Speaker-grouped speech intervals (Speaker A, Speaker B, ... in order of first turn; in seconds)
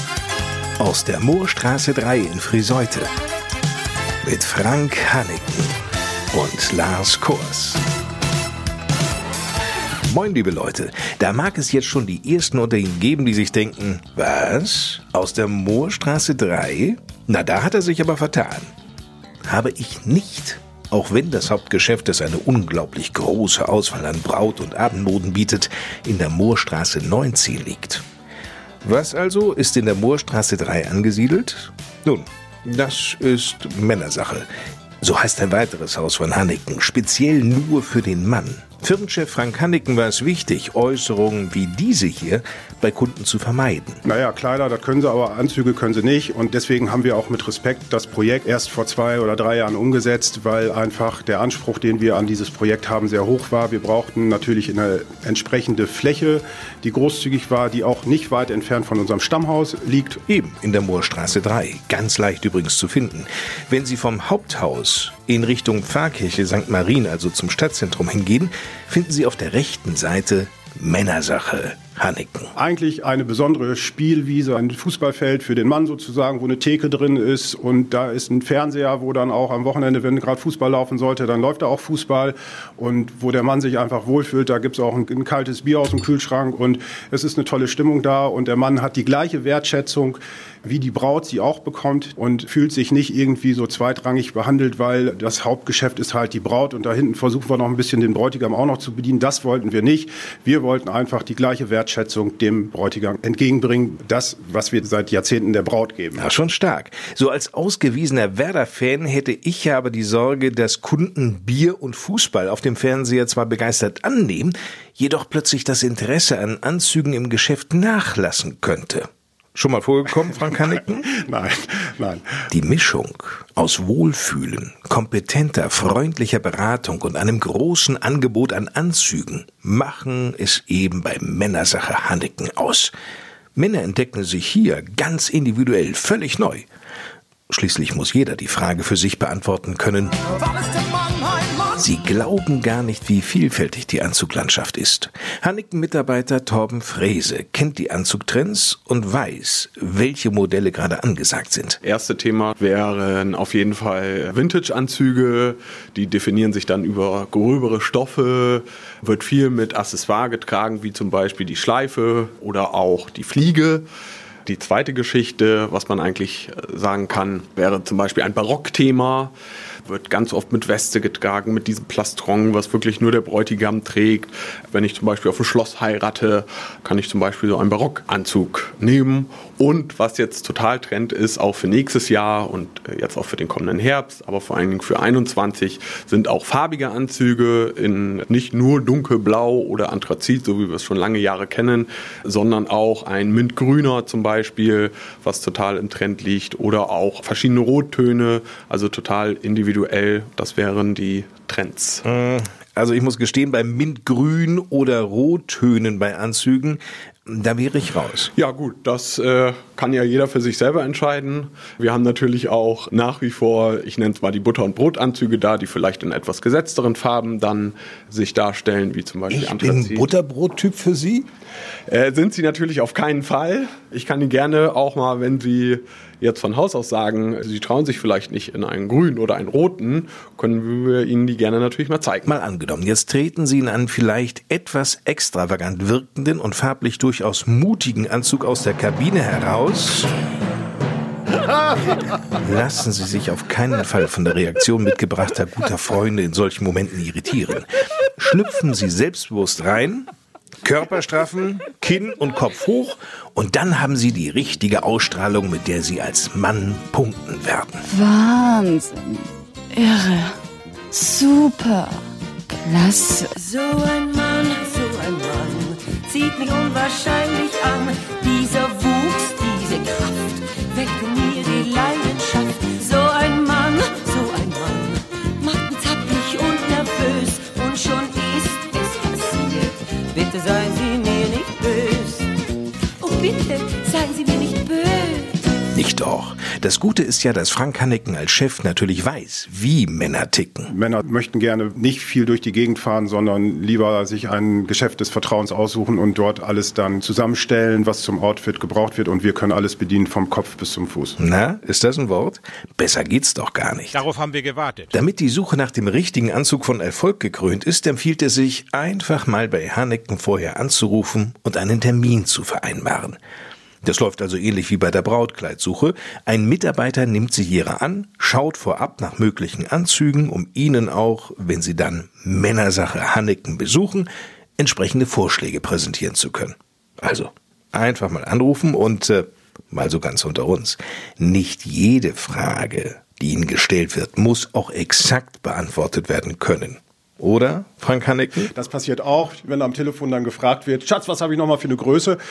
Speaker A: 0.8-3.1, 4.2-5.7, 6.3-7.8, 10.1-18.7, 19.4-28.0, 28.8-34.5, 35.0-44.0, 60.3-72.5, 106.2-121.1, 122.5-132.9, 133.6-136.7, 137.5-140.2, 141.7-151.8, 202.0-208.3, 219.3-221.2, 232.2-240.1, 242.4-250.1, 250.6-257.8, 285.7-290.7, 301.2-304.0, 304.9-313.2, 313.8-338.5
Speaker B: 44.0-60.2, 72.5-106.3, 121.0-122.4, 290.7-301.2, 338.5-342.2
Speaker C: 151.8-163.8, 164.4-169.3, 169.8-202.0, 208.3-220.1, 221.9-232.3
Speaker D: 257.8-260.4, 260.9-263.3
Speaker E: 263.3-282.3, 283.0-285.5